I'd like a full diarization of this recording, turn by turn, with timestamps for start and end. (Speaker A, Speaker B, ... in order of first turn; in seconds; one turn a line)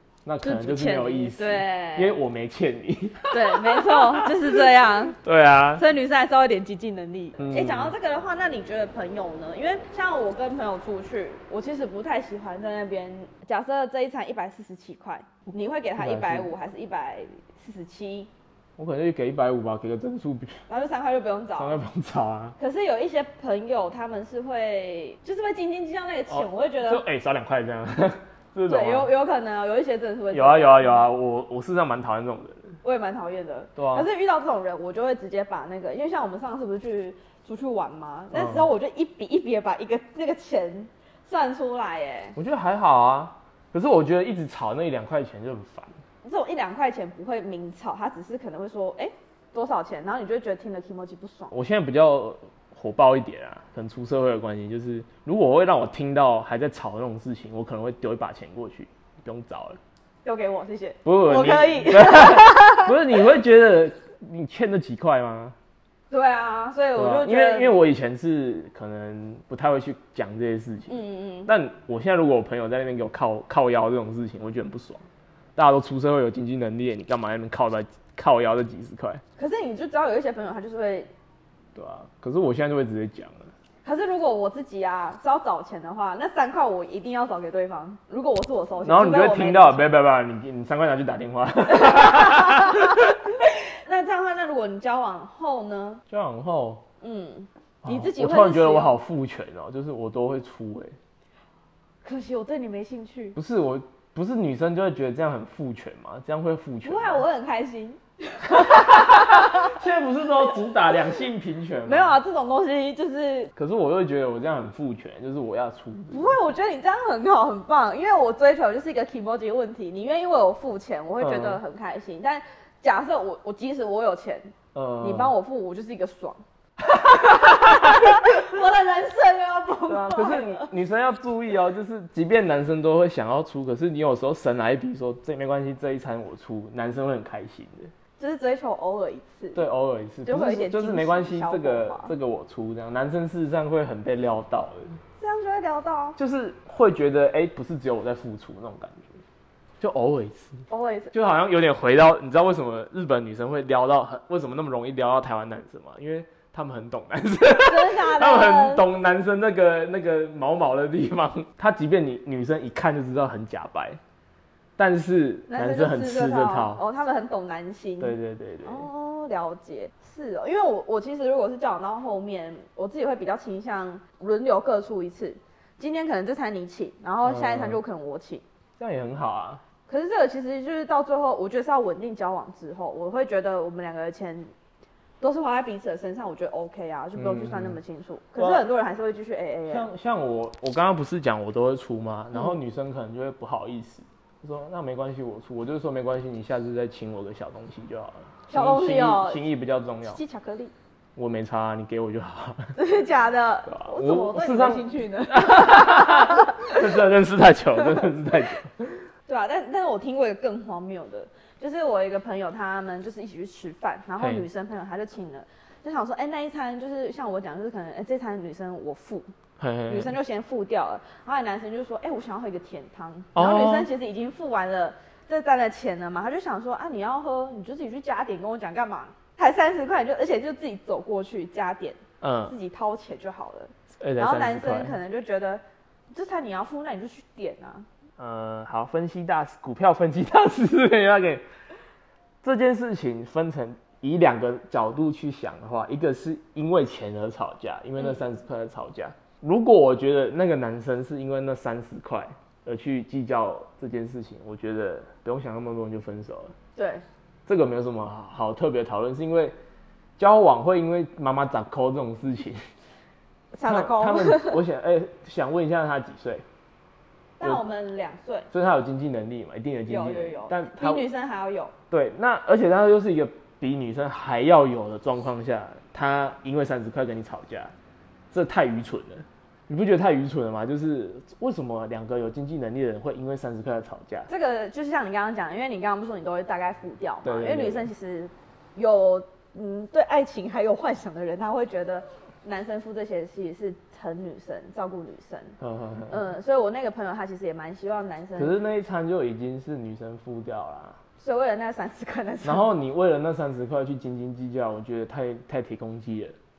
Speaker A: 0.2-5.8
Speaker B: 0.4-2.2
Speaker B: 3.3-5.2
Speaker B: 5.8-18.3
Speaker A: 7.4-7.9
Speaker A: 16.0-16.5
Speaker A: 18.8-20.6
Speaker B: 20.7-21.8
Speaker A: 21.6-22.6
Speaker B: 22.6-27.0
Speaker A: 26.3-29.1
Speaker B: 28.7-31.1
Speaker A: 30.3-32.7
Speaker B: 32.8-42.4
Speaker A: 33.8-34.1
Speaker A: 38.3-38.7
Speaker A: 42.4-46.0
Speaker B: 46.2-51.5
Speaker A: 51.5-59.8
Speaker B: 60.2-62.9
Speaker A: 61.0-65.5
Speaker B: 66.1-67.8
Speaker A: 66.9-75.0
Speaker B: 70.9-71.5
Speaker A: 75.5-79.2
Speaker B: 79.4-81.1
Speaker A: 81.7-83.5
Speaker B: 83.8-89.8
Speaker A: 88.8-93.2
Speaker B: 91.7-96.0
Speaker A: 96.1-96.8
Speaker B: 97.0-99.0
Speaker A: 97.8-101.0
Speaker B: 102.0-103.4
Speaker A: 103.3-107.2
Speaker B: 106.8-109.8
Speaker A: 108.5-112.2
Speaker B: 111.8-113.5
Speaker A: 113.5-116.4
Speaker B: 116.1-130.7
Speaker A: 121.2-121.6
Speaker A: 124.7-125.3
Speaker A: 127.0-128.1
Speaker A: 129.9-137.9
Speaker B: 138.2-139.6
Speaker A: 139.5-145.0
Speaker B: 140.2-142.1
Speaker B: 145.2-146.2
Speaker A: 146.2-149.2
Speaker A: 149.8-164.0
Speaker B: 150.7-151.1
Speaker B: 157.6-158.8
Speaker A: 164.8-166.8
Speaker B: 165.5-178.4
Speaker A: 168.0-168.8
Speaker A: 177.2-177.8
Speaker A: 178.8-179.6
Speaker B: 179.9-184.5
Speaker B: 185.2-189.9
Speaker A: 187.2-187.8
Speaker A: 188.4-188.6
Speaker A: 189.7-200.2
Speaker B: 198.5-199.4
Speaker B: 200.1-200.7
Speaker A: 201.2-202.7
Speaker B: 202.8-206.8
Speaker A: 203.7-209.0
Speaker B: 209.3-219.3
Speaker A: 214.2-214.4
Speaker A: 219.6-220.1
Speaker B: 219.9-235.6
Speaker A: 223.3-223.9
Speaker A: 232.2-232.5
Speaker A: 234.0-234.9
Speaker B: 236.1-237.9
Speaker A: 238.2-241.4
Speaker A: 242.4-256.5
Speaker B: 248.0-248.2
Speaker B: 256.8-257.0
Speaker A: 257.5-259.5
Speaker A: 260.2-262.6
Speaker B: 263.5-264.6
Speaker A: 263.6-266.4
Speaker B: 267.4-268.5
Speaker A: 268.5-271.1
Speaker B: 269.9-271.7
Speaker A: 271.9-277.7
Speaker A: 278.3-284.3
Speaker B: 284.3-295.6
Speaker A: 287.2-287.9
Speaker A: 295.6-296.2
Speaker B: 296.1-298.5
Speaker A: 298.4-301.0
Speaker B: 301.2-302.6
Speaker A: 302.4-306.3